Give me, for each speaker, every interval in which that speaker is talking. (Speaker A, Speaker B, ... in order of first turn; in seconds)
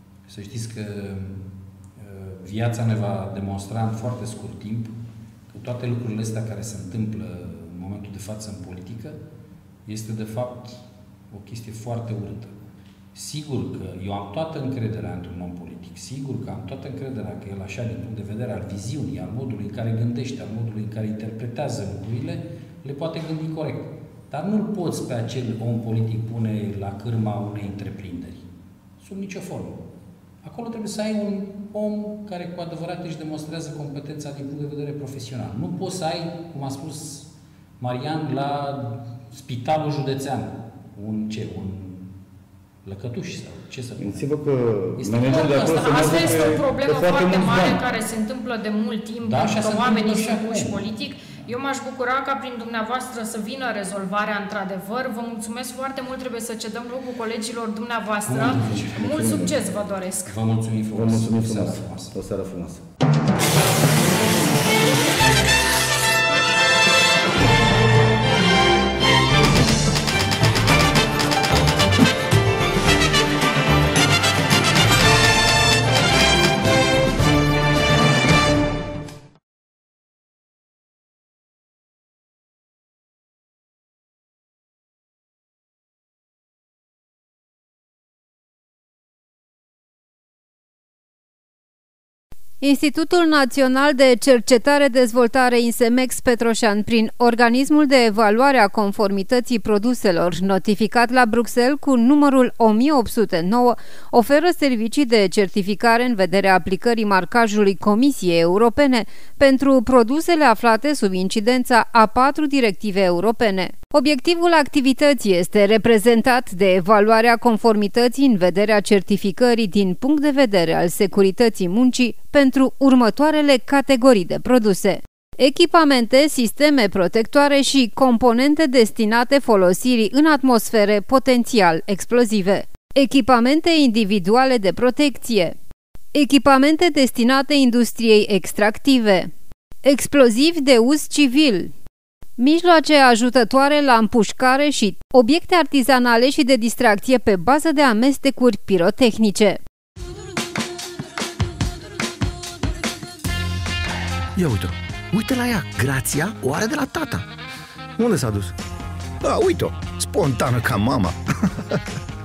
Speaker A: 0.3-1.5, 2.0-4.9, 5.5-9.2, 9.9-12.5, 13.2-28.5, 29.0-29.8, 30.4-37.3, 37.8-42.1, 42.9-44.2, 45.0-46.6, 49.2-50.9, 58.3-59.3, 60.3-62.2
Speaker B: 44.0-47.9, 58.6-59.6, 60.9-62.9
Speaker C: 45.3-60.3
Speaker D: 92.6-135.6, 136.1-139.3, 139.8-141.7, 142.4-149.6
Speaker E: 154.4-157.2, 158.0-158.5, 159.2-161.1